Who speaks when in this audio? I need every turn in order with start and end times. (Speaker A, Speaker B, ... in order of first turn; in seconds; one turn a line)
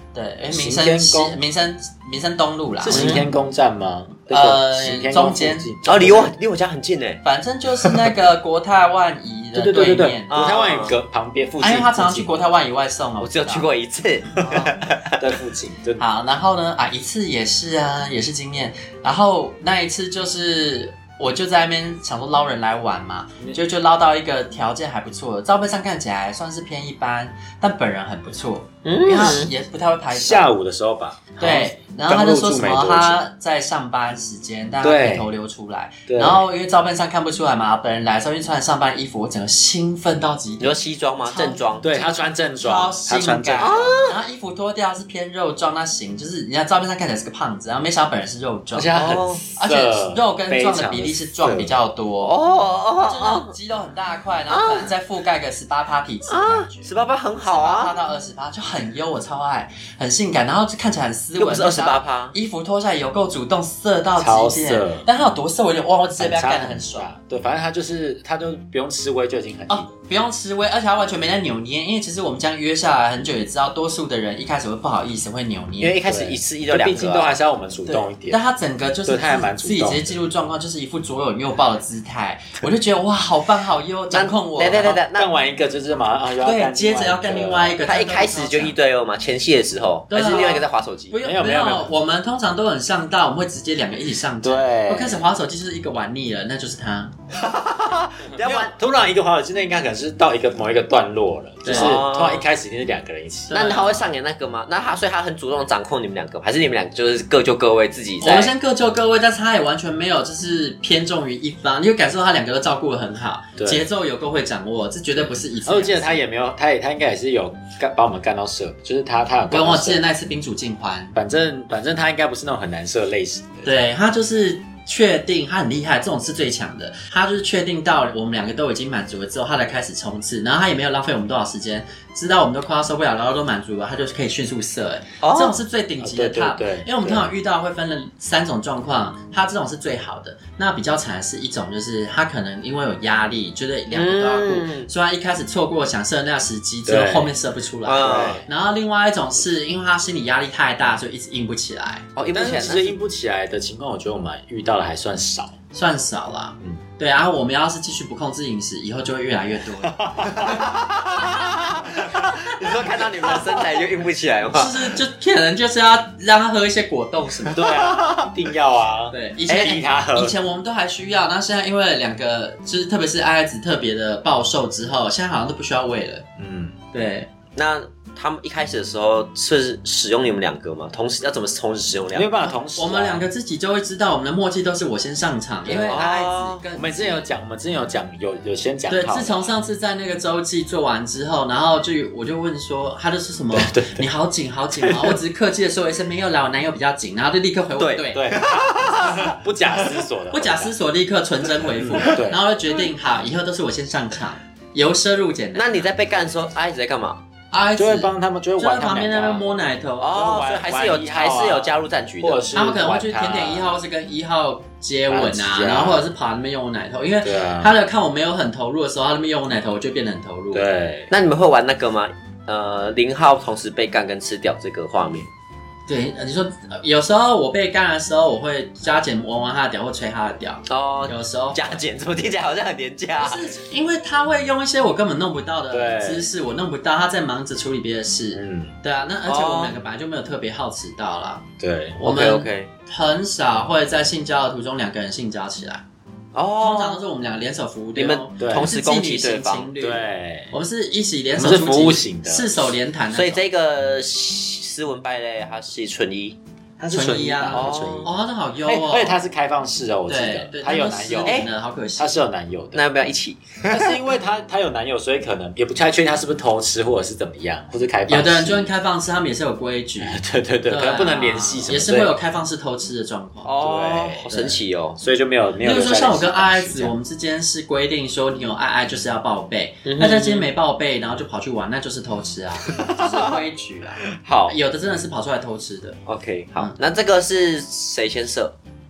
Speaker A: 0.1-3.2
Speaker B: 0.5-1.4
Speaker B: 2.8-6.3
Speaker C: 2.9-3.2
Speaker A: 4.3-5.7
Speaker C: 5.8-7.2
Speaker A: 7.2-10.4
Speaker B: 9.5-12.4
Speaker C: 10.3-10.9
Speaker A: 11.6-13.7
Speaker C: 13.2-15.1
Speaker A: 14.3-14.8
Speaker B: 14.4-16.0
Speaker A: 16.0-30.5
Speaker C: 28.8-29.5
Speaker B: 30.1-33.2
Speaker A: 31.4-49.0
Speaker B: 34.8-35.3
Speaker B: 36.1-36.4
Speaker C: 40.6-41.9
Speaker B: 41.8-43.9
Speaker C: 43.6-44.1
Speaker B: 48.7-51.7
Speaker C: 48.9-49.4
Speaker A: 49.5-52.3
Speaker C: 52.2-53.5
Speaker A: 53.0-56.9
Speaker C: 54.5-54.9
Speaker C: 56.3-57.9
Speaker A: 57.4-67.1
Speaker C: 61.4-62.3
Speaker B: 64.2-65.1
Speaker B: 66.2-69.9
Speaker A: 69.7-76.0
Speaker C: 75.8-77.3
Speaker B: 76.0-78.4
Speaker A: 77.8-85.0
Speaker B: 79.0-80.2
Speaker C: 84.1-85.3
Speaker B: 85.1-87.8
Speaker A: 86.4-88.7
Speaker C: 87.8-91.1
Speaker A: 90.1-97.1
Speaker B: 91.2-91.9
Speaker B: 94.4-95.2
Speaker C: 97.3-98.7
Speaker B: 98.4-103.5
Speaker A: 101.6-102.0
Speaker C: 101.7-102.5
Speaker A: 103.5-104.1
Speaker C: 103.5-108.5
Speaker A: 108.2-116.2
Speaker B: 113.6-113.8
Speaker B: 115.6-120.0
Speaker A: 119.5-121.2
Speaker B: 121.1-123.7
Speaker A: 123.6-152.1
Speaker C: 135.2-135.6
Speaker B: 136.0-137.3
Speaker C: 143.9-144.9
Speaker B: 146.8-147.3
Speaker C: 147.8-148.4
Speaker B: 148.0-148.4
Speaker C: 152.2-152.9
Speaker B: 152.3-155.5
Speaker A: 155.7-160.5
Speaker B: 159.8-160.6
Speaker C: 160.3-164.9
Speaker B: 162.0-162.3
Speaker A: 164.5-167.7
Speaker B: 167.5-170.3
Speaker C: 167.7-168.3
Speaker A: 169.1-176.2
Speaker B: 176.4-176.7
Speaker A: 176.9-177.3
Speaker C: 177.6-182.3
Speaker B: 182.1-183.3
Speaker A: 182.4-187.2
Speaker B: 185.7-189.5
Speaker C: 185.7-186.6
Speaker A: 188.9-198.2
Speaker B: 193.5-194.1
Speaker B: 194.8-195.2
Speaker C: 197.8-200.0
Speaker B: 198.1-200.7
Speaker A: 200.3-205.9
Speaker B: 201.8-202.4
Speaker C: 205.5-207.2
Speaker A: 207.5-210.1
Speaker B: 207.8-209.4
Speaker C: 210.0-212.4
Speaker B: 210.1-213.7
Speaker A: 212.5-220.6
Speaker B: 215.1-216.1
Speaker B: 217.2-217.7
Speaker B: 220.5-221.1
Speaker C: 221.1-225.3
Speaker A: 225.9-231.8
Speaker C: 230.7-233.5
Speaker A: 233.2-241.4
Speaker B: 235.7-236.3
Speaker B: 238.3-238.7
Speaker C: 239.3-239.8
Speaker B: 241.6-242.0
Speaker A: 242.0-245.8
Speaker C: 242.0-242.7
Speaker C: 246.3-247.0
Speaker A: 246.6-253.4
Speaker C: 247.9-249.7
Speaker B: 248.4-248.7
Speaker B: 249.8-250.5
Speaker B: 251.3-252.6
Speaker C: 253.1-256.4
Speaker B: 256.8-258.1
Speaker A: 256.9-259.1
Speaker C: 257.5-258.1
Speaker B: 258.6-262.8
Speaker A: 260.1-262.1
Speaker C: 261.2-261.5
Speaker C: 262.7-263.9
Speaker B: 263.7-268.7
Speaker A: 268.1-273.5
Speaker B: 270.0-272.1
Speaker C: 273.4-275.0
Speaker B: 273.6-274.3
Speaker A: 274.3-274.6
Speaker B: 275.0-276.9
Speaker A: 275.6-286.0
Speaker C: 279.8-280.5
Speaker C: 282.7-283.1
Speaker C: 284.2-284.5
Speaker C: 286.1-288.5